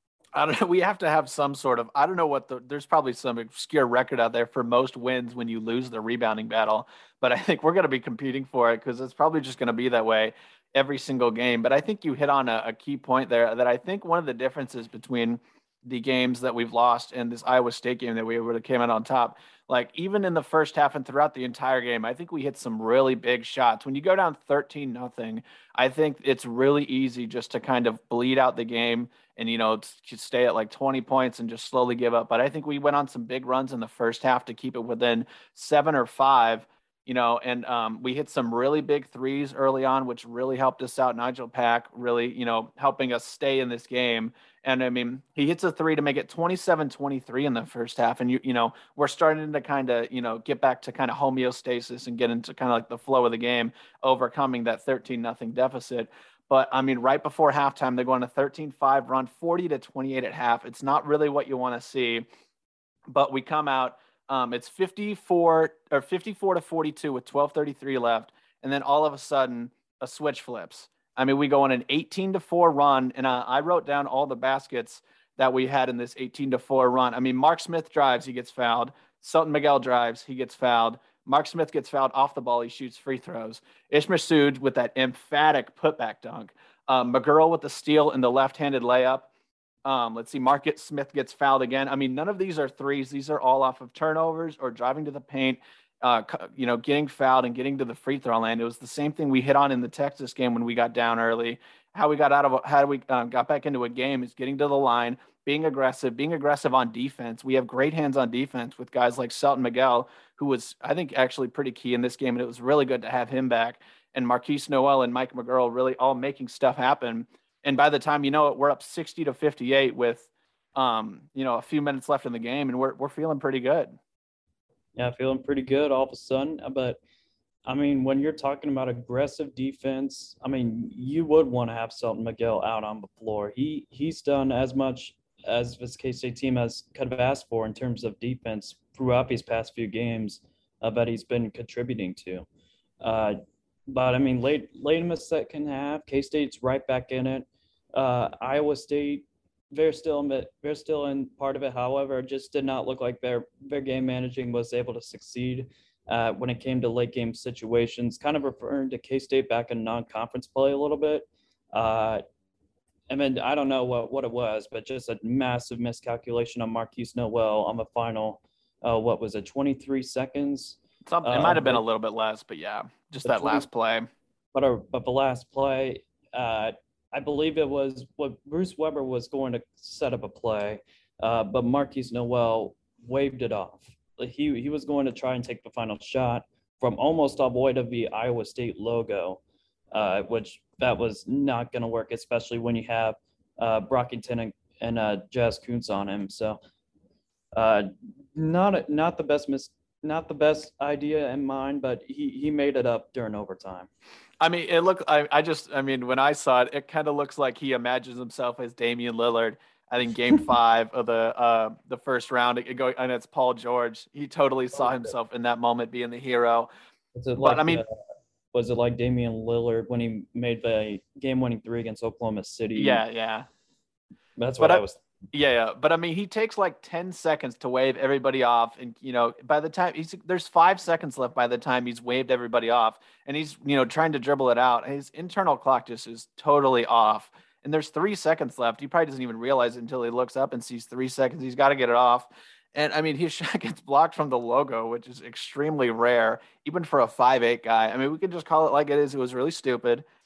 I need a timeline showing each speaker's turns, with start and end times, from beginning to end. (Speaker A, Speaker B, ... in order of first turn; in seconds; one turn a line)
Speaker A: 0.3-62.2
Speaker A: 63.1-89.3
Speaker A: 89.8-124.0
Speaker B: 125.0-127.0
Speaker B: 127.6-142.4
Speaker B: 143.0-143.4
Speaker B: 143.9-162.2
Speaker B: 163.1-171.8
Speaker A: 171.1-174.1
Speaker B: 173.2-173.6
Speaker B: 174.5-189.4
Speaker B: 189.9-196.6
Speaker B: 197.5-203.9
Speaker A: 204.4-216.7
Speaker B: 214.8-215.1
Speaker B: 217.1-217.9
Speaker A: 217.4-217.8
Speaker B: 218.5-223.0
Speaker A: 222.7-223.5
Speaker B: 224.4-225.0
Speaker A: 224.6-250.0